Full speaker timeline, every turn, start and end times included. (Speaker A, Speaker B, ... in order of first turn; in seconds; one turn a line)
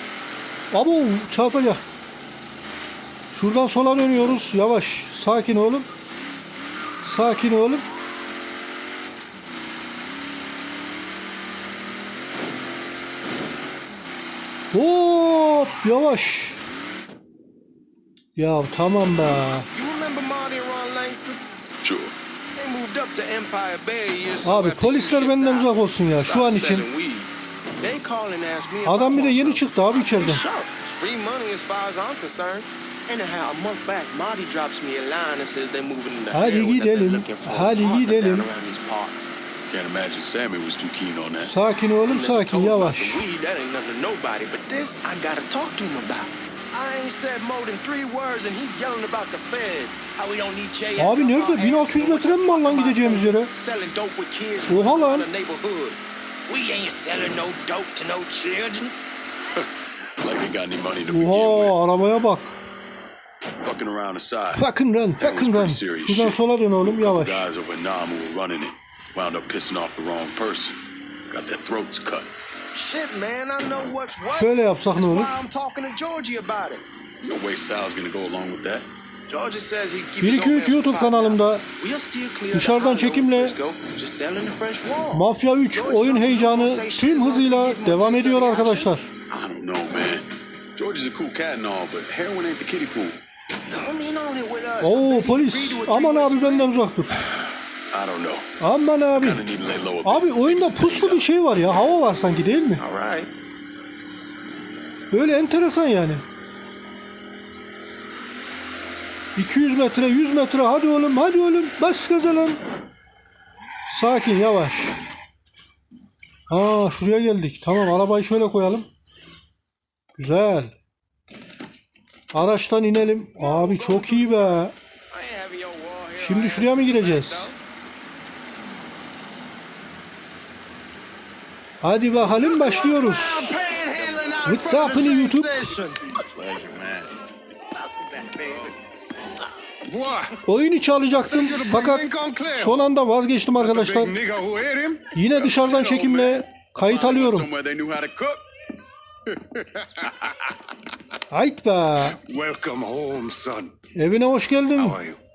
Speaker A: 0.7-1.8
Speaker A: 3.3-5.9
Speaker A: 7.0-7.8
Speaker A: 14.7-16.6
Speaker A: 18.4-19.7
Speaker B: 19.7-21.4
Speaker C: 21.8-22.1
Speaker B: 22.6-39.3
Speaker A: 24.4-26.9
Speaker A: 28.8-30.4
Speaker A: 36.3-38.5
Speaker C: 39.7-41.5
Speaker A: 41.4-43.2
Speaker B: 42.0-58.9
Speaker A: 51.0-53.5
Speaker A: 54.7-55.3
Speaker C: 60.2-61.8
Speaker A: 61.1-62.5
Speaker C: 63.6-64.7
Speaker A: 64.5-67.4
Speaker C: 65.2-70.8
Speaker C: 71.3-72.3
Speaker B: 72.7-76.8
Speaker A: 74.3-75.3
Speaker C: 77.2-78.9
Speaker B: 79.3-88.9
Speaker A: 80.2-81.6
Speaker A: 82.5-83.5
Speaker A: 85.1-89.1
Speaker C: 89.3-93.2
Speaker B: 93.7-96.8
Speaker A: 94.8-97.2
Speaker C: 97.9-98.5
Speaker A: 98.6-99.4
Speaker C: 99.1-101.3
Speaker A: 100.0-102.8
Speaker B: 102.8-103.3
Speaker A: 105.1-106.2
Speaker A: 109.3-112.6
Speaker A: 113.9-115.0
Speaker A: 116.5-118.9
Speaker A: 120.2-120.7
Speaker A: 122.3-124.7
Speaker B: 123.3-127.6
Speaker A: 126.2-127.5
Speaker A: 131.8-133.4
Speaker B: 132.4-136.2
Speaker A: 134.4-135.6
Speaker D: 134.7-135.2
Speaker C: 136.3-137.1
Speaker C: 138.4-138.7
Speaker D: 139.8-140.4
Speaker A: 140.4-144.1
Speaker D: 141.1-142.9
Speaker D: 143.6-145.1
Speaker A: 145.1-147.5
Speaker C: 145.2-148.4
Speaker D: 149.3-150.1
Speaker A: 151.3-152.2
Speaker D: 152.1-153.7
Speaker A: 153.9-155.0
Speaker D: 154.8-155.2